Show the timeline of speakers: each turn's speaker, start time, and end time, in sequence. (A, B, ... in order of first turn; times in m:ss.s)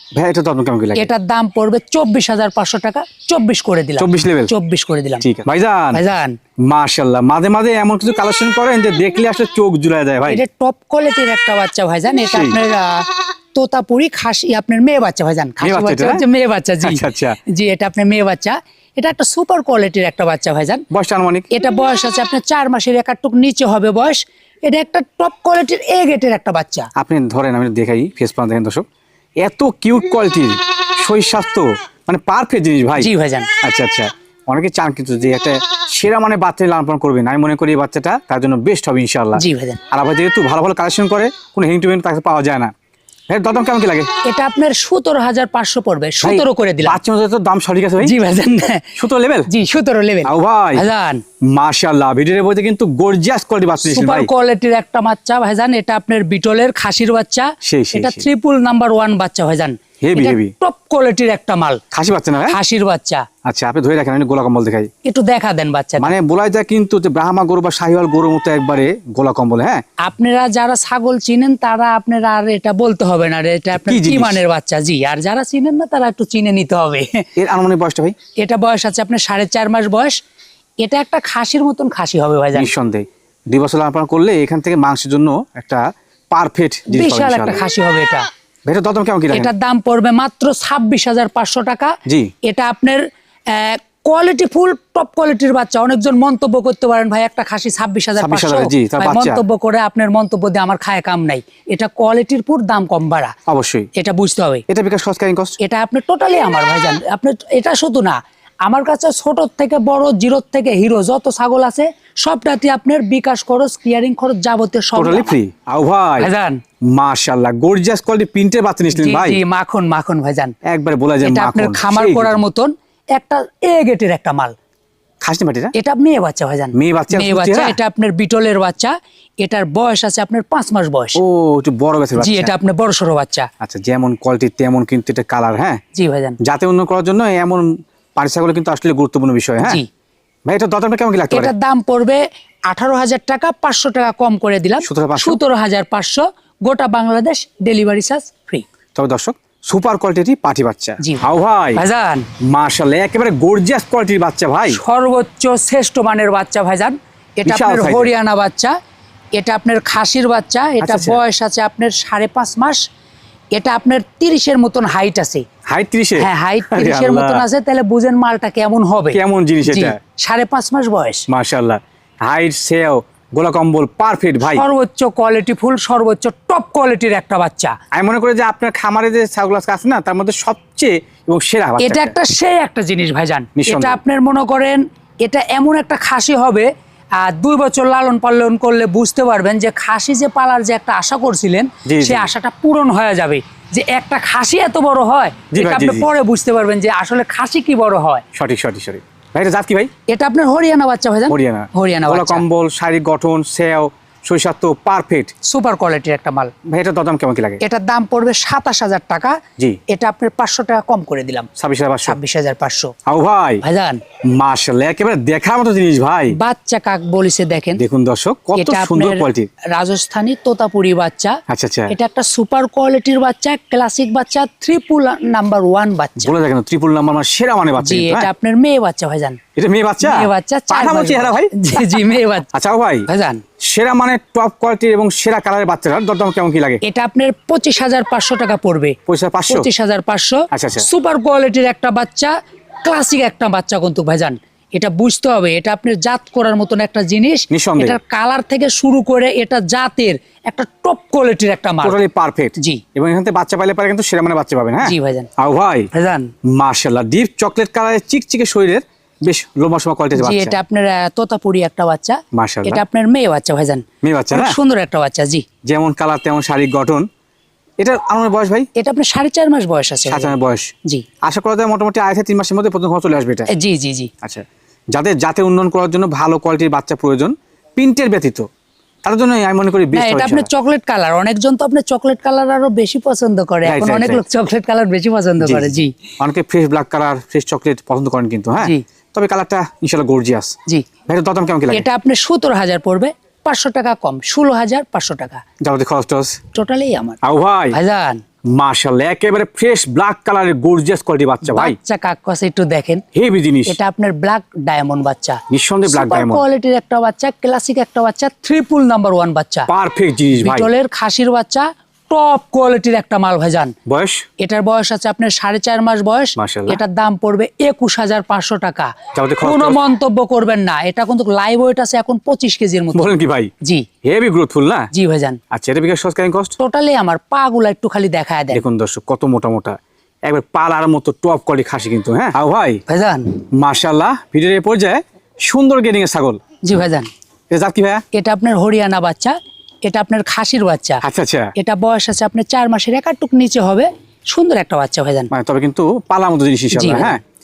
0:00.2-0:01.1 A
0:01.0-0:05.2 B
0:04.0-0:04.5 A
0:05.2-0:06.0 A
0:05.9-0:06.4 B
0:06.7-0:10.4 A
0:10.3-0:20.8 B
0:12.3-0:12.6 A
0:15.6-0:16.2 A
0:16.8-0:17.4 A
0:20.9-0:21.5 A
0:21.5-0:26.9 B
0:27.0-0:28.8 A
0:29.4-0:33.1 A
0:33.0-0:33.5 B
0:33.6-0:42.7 A
0:39.4-0:39.8 B
0:43.3-0:44.1 A
0:44.2-0:47.0 B
0:46.2-0:48.2 A
0:48.0-0:49.0 B
0:49.0-0:49.5 A
0:49.5-0:51.2 B
0:50.2-0:50.8 A
0:51.5-0:54.3 A
0:53.9-1:01.8 B
0:57.6-0:58.3 A
1:00.0-1:00.5 A
1:01.9-1:02.6 A
1:02.5-1:03.2 B
1:03.4-1:04.9 A
1:05.0-1:06.1 B
1:06.0-1:09.8 A
1:10.0-1:17.2 B
1:13.8-1:14.4 A
1:17.4-1:18.2 A
1:18.4-1:20.2 B
1:20.8-1:22.7 B
1:22.6-1:27.6 A
1:26.9-1:28.3 B
1:28.7-1:29.5 A
1:29.3-1:43.3 B
1:32.1-1:32.3 A
1:38.2-1:39.4 A
1:43.5-1:43.9 A
1:44.0-1:44.6 B
1:44.7-1:45.6 A
1:45.6-1:55.4 B
1:55.0-1:56.3 A
1:56.2-1:56.6 B
1:56.9-1:59.4 A
1:59.0-2:00.5 B
2:00.6-2:02.4 A
2:01.2-2:04.5 B
2:05.2-2:05.7 A
2:05.7-2:11.2 B
2:06.8-2:07.8 A
2:11.2-2:12.5 A
2:12.2-2:13.5 B
2:13.6-2:15.8 A
2:15.9-2:16.4 B
2:16.4-2:19.8 A
2:19.6-2:19.9 B
2:20.5-2:21.5 A
2:21.3-2:28.6 B
2:24.8-2:25.4 A
2:29.0-2:31.8 A
2:31.8-2:32.3 B
2:32.4-2:34.8 A
2:34.7-2:38.7 B
2:37.4-2:38.1 A
2:39.4-2:42.8 B
2:40.8-2:41.2 A
2:43.5-2:45.4 B
2:45.7-2:47.4 A
2:46.2-2:51.3 B
2:49.1-2:50.0 A
2:51.3-2:54.6 A
2:54.4-2:57.7 B
2:57.9-3:02.2 A
3:01.8-3:18.2 B
3:03.6-3:04.0 A
3:11.9-3:12.3 A
3:15.5-3:16.1 A
3:18.3-3:19.9 A
3:20.1-3:22.4 B
3:21.3-3:25.3 A
3:25.4-3:26.5 B
3:26.7-3:27.6 A
3:27.6-3:29.4 B
3:29.9-3:31.5 B
3:31.6-3:32.2 A
3:32.0-3:32.9 B
3:33.1-3:33.6 A
3:33.6-3:34.0 B
3:34.3-3:36.4 A
3:36.3-3:37.8 B
3:37.8-3:39.5 A
3:38.6-3:46.3 B
3:41.5-3:42.0 A
3:46.2-3:48.3 A
3:47.8-3:49.4 B
3:49.6-3:53.1 A
3:50.0-3:52.5 B
3:53.1-3:53.4 B
3:53.6-3:56.8 A
3:56.8-3:59.0 B
3:59.1-3:59.7 A
3:59.5-4:12.0 B
4:00.5-4:00.9 A
4:07.5-4:08.0 A
4:11.8-4:15.9 A
4:14.8-4:15.3 B
4:15.9-4:16.3 B
4:16.5-4:20.6 A
4:20.2-4:25.5 B
4:22.3-4:22.8 A
4:24.0-4:24.6 A
4:25.6-4:27.1 A
4:27.8-4:28.7 A
4:28.8-4:31.0 B
4:30.1-4:33.5 A
4:33.5-4:34.1 B
4:34.2-4:38.5 A
4:39.0-4:40.5 A
4:39.9-4:45.9 B
4:43.7-4:44.2 A
4:45.4-4:50.6 A
4:51.1-4:51.9 A
4:51.7-4:55.4 B
4:55.6-4:56.4 A
4:56.5-4:57.2 B
4:57.2-4:57.8 A
4:57.7-4:58.2 B
4:58.5-5:01.8 A
5:01.4-5:03.0 B
5:03.1-5:03.8 A
5:03.7-5:09.7 B
5:05.5-5:06.4 A
5:09.7-5:10.7 A
5:10.4-5:13.7 B
5:13.9-5:14.3 A
5:14.4-5:23.9 B
5:16.4-5:16.8 A
5:19.1-5:19.8 A
5:23.0-5:23.5 A
5:24.0-5:24.9 A
5:24.9-5:25.4 B
5:25.5-5:26.6 A
5:26.6-5:28.6 B
5:28.5-5:32.8 A
5:32.9-5:33.3 B
5:33.6-5:36.4 A
5:36.6-5:37.1 B
5:37.5-5:38.0 A
5:38.1-5:41.0 B
5:41.0-5:41.5 A
5:41.6-5:45.3 B
5:45.3-5:47.2 A
5:46.7-5:47.2 B